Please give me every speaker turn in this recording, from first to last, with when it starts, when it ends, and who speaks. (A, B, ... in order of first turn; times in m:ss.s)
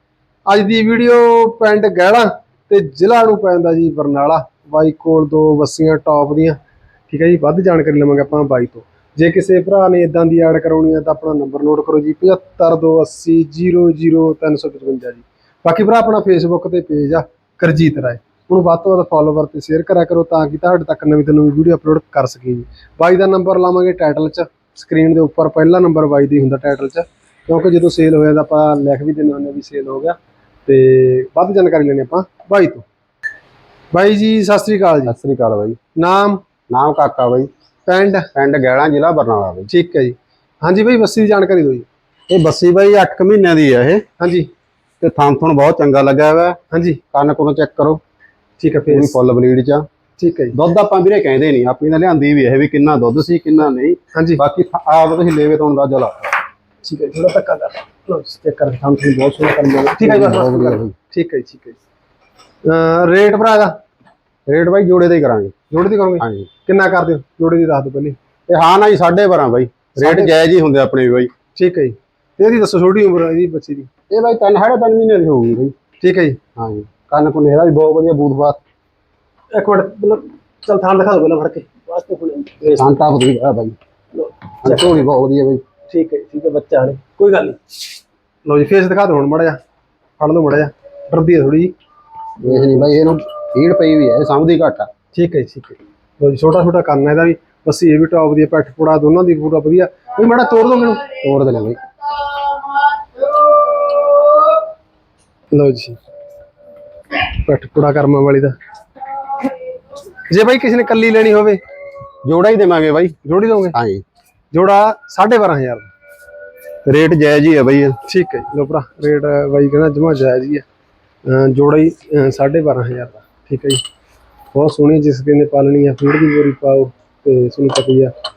0:00.5-0:32.8 A
0:33.9-0:35.1 A
0:35.1-0:35.8 B
0:36.0-0:36.4 A
0:36.7-0:37.5 B
0:37.9-0:38.3 A
0:38.4-0:39.7 B
0:39.7-0:41.9 A
0:42.3-0:44.0 B
0:44.2-0:44.5 A
0:45.0-0:46.6 B
0:46.7-0:47.0 A
0:47.1-0:48.0 B
0:48.6-0:49.2 A
0:48.9-0:49.8 B
0:50.2-0:50.6 A
0:50.5-0:56.3 B
0:54.1-0:54.4 A
0:56.8-1:01.8 A
1:00.0-1:00.9 B
1:02.7-1:03.8 A
1:04.5-1:05.5 B
1:05.7-1:08.2 A
1:06.2-1:06.5 B
1:08.5-1:11.3 B
1:10.0-1:10.4 A
1:11.6-1:13.9 A
1:14.1-1:15.7 B
1:16.0-1:16.4 A
1:16.6-1:18.6 B
1:19.5-1:23.0 A
1:22.7-1:23.8 B
1:24.2-1:25.1 A
1:24.6-1:25.6 B
1:25.9-1:27.6 A
1:28.5-1:29.6 A
1:30.2-1:31.7 A
1:32.4-1:34.9 B
1:32.4-1:33.0 A
1:35.1-1:41.1 A
1:41.1-1:41.8 B
1:45.5-1:46.0 A
1:47.2-1:48.6 A
1:50.3-1:51.6 A
1:52.2-1:53.2 B
1:53.2-1:53.8 A
1:53.7-1:54.0 B
1:54.5-1:55.9 A
1:56.8-1:58.0 B
1:58.0-2:00.6 A
2:01.3-2:03.8 A
2:04.5-2:08.1 A